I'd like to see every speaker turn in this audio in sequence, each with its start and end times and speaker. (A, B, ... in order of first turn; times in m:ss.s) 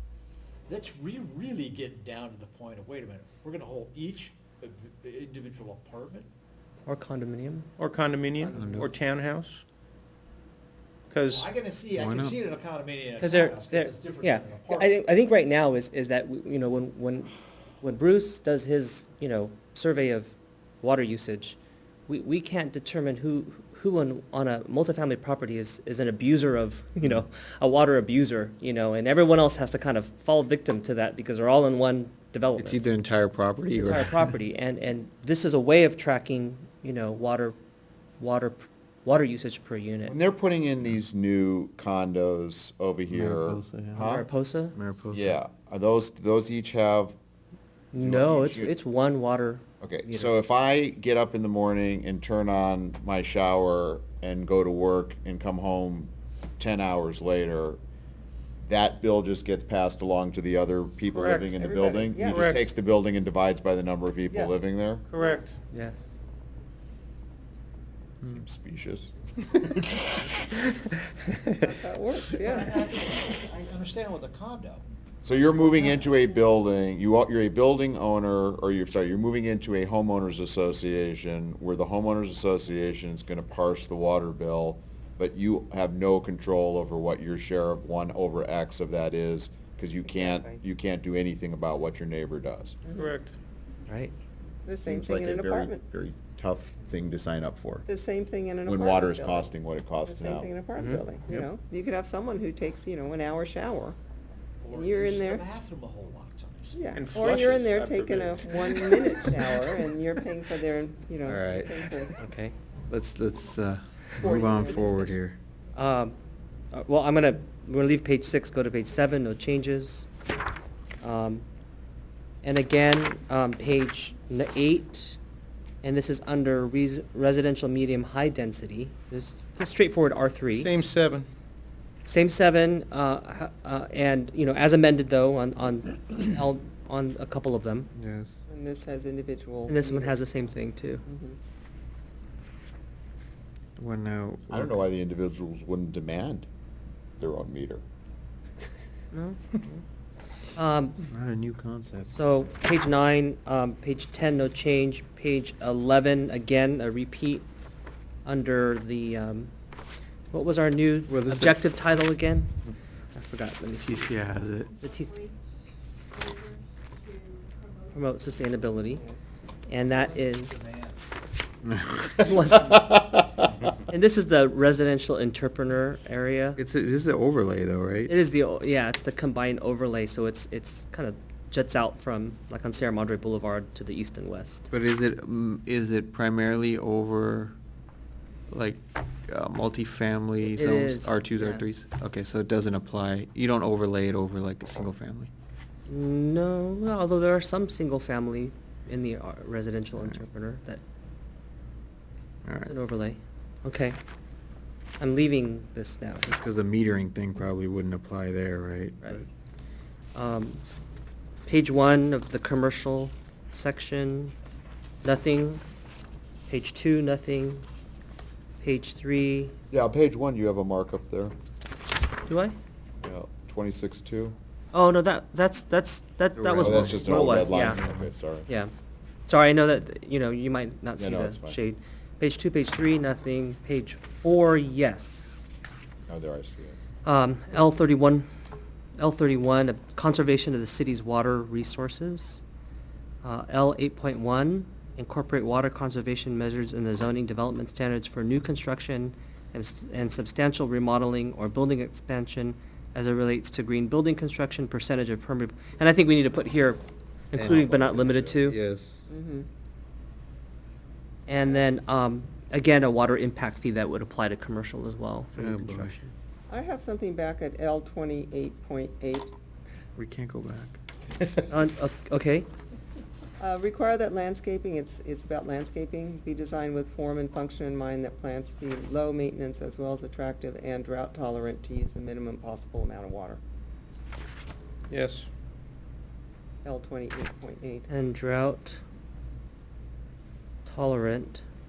0:00.7-0:06.3 A
0:06.8-0:07.7 B
0:07.8-0:09.6 C
0:08.5-0:08.9 D
0:11.1-0:11.5 C
0:11.2-0:14.9 A
0:11.9-0:12.4 D
0:13.2-0:32.8 B
0:32.6-0:34.3 D
0:33.7-0:37.6 B
0:38.2-0:40.2 B
0:40.1-0:44.3 E
0:43.1-0:44.0 D
0:44.0-0:44.7 B
0:44.7-0:45.4 D
0:45.1-0:47.2 E
0:47.9-0:50.3 B
0:47.9-0:48.7 E
0:49.8-0:57.8 E
0:58.7-1:05.0 E
1:01.1-1:01.7 C
1:01.6-1:02.6 F
1:02.2-1:02.6 C
1:04.3-1:05.4 F
1:05.1-1:05.6 C
1:05.7-1:06.0 B
1:08.2-1:10.1 E
1:11.6-1:12.8 F
1:12.1-1:14.8 A
1:15.2-1:32.8 E
1:30.1-1:30.6 F
1:32.9-1:33.1 F
1:32.9-1:33.3 C
1:33.9-1:34.1 B
1:34.6-1:35.8 F
1:34.8-1:37.8 E
1:37.8-1:39.5 F
1:38.6-1:40.5 E
1:40.0-1:44.0 F
1:40.8-1:41.0 B
1:44.6-1:47.2 A
1:44.7-1:45.4 F
1:46.7-1:52.1 F
1:46.9-1:49.4 C
1:51.2-1:51.8 D
1:52.2-1:52.5 B
1:52.9-1:55.4 D
1:54.2-1:55.2 F
1:55.7-1:56.2 B
1:56.7-2:00.1 B
2:01.0-2:01.4 B
2:02.4-2:05.2 B
2:05.8-2:10.7 B
2:10.5-2:11.3 C
2:12.0-2:17.9 B
2:18.0-2:18.4 D
2:18.5-2:20.2 F
2:19.7-2:21.0 B
2:21.0-2:21.4 F
2:23.8-2:24.8 D
2:24.5-2:26.5 E
2:27.2-2:27.8 E
2:29.1-2:29.8 B
2:30.6-2:31.0 B
2:31.1-2:32.1 D
2:32.1-2:37.4 B
2:38.2-2:39.5 B
2:40.3-2:42.5 B
2:41.1-2:41.6 D
2:43.1-2:44.1 B
2:43.8-2:44.8 D
2:44.8-2:45.2 B
2:47.9-2:49.0 B
2:49.7-2:50.6 B
2:49.8-2:51.0 A
2:51.6-2:52.2 D
2:52.2-2:53.0 B
2:52.6-2:53.4 E
2:53.9-2:56.6 B
2:56.6-2:58.1 D
2:58.1-3:04.7 B
3:04.7-3:07.5 D
3:08.5-3:15.3 D
3:10.5-3:11.6 B
3:15.9-3:20.8 B
3:22.4-3:22.7 D
3:22.6-3:24.0 B
3:25.0-3:26.3 B
3:26.2-3:29.2 D
3:30.1-3:30.6 B
3:31.4-3:34.3 B
3:35.0-3:35.6 B
3:36.5-3:37.6 B
3:38.6-3:39.6 B
3:39.7-3:41.3 E
3:42.2-3:42.5 B
3:43.0-3:44.4 E
3:44.7-3:47.8 B
3:46.4-3:48.0 D
3:46.6-3:48.5 E
3:48.5-3:48.7 B
3:49.3-3:55.4 B
3:51.0-3:51.6 E
3:56.1-3:56.8 E
3:57.0-3:58.2 B
3:59.0-4:02.4 B
4:03.2-4:18.6 B
4:17.3-4:19.0 D
4:19.1-4:19.5 F
4:21.3-4:26.1 B
4:25.4-4:26.1 D
4:26.5-4:29.3 F
4:30.0-4:30.8 D
4:31.5-4:32.5 B
4:33.4-4:43.4 F
4:44.9-4:45.3 C
4:46.6-4:47.9 F
4:47.9-4:48.8 B
4:50.6-4:51.4 B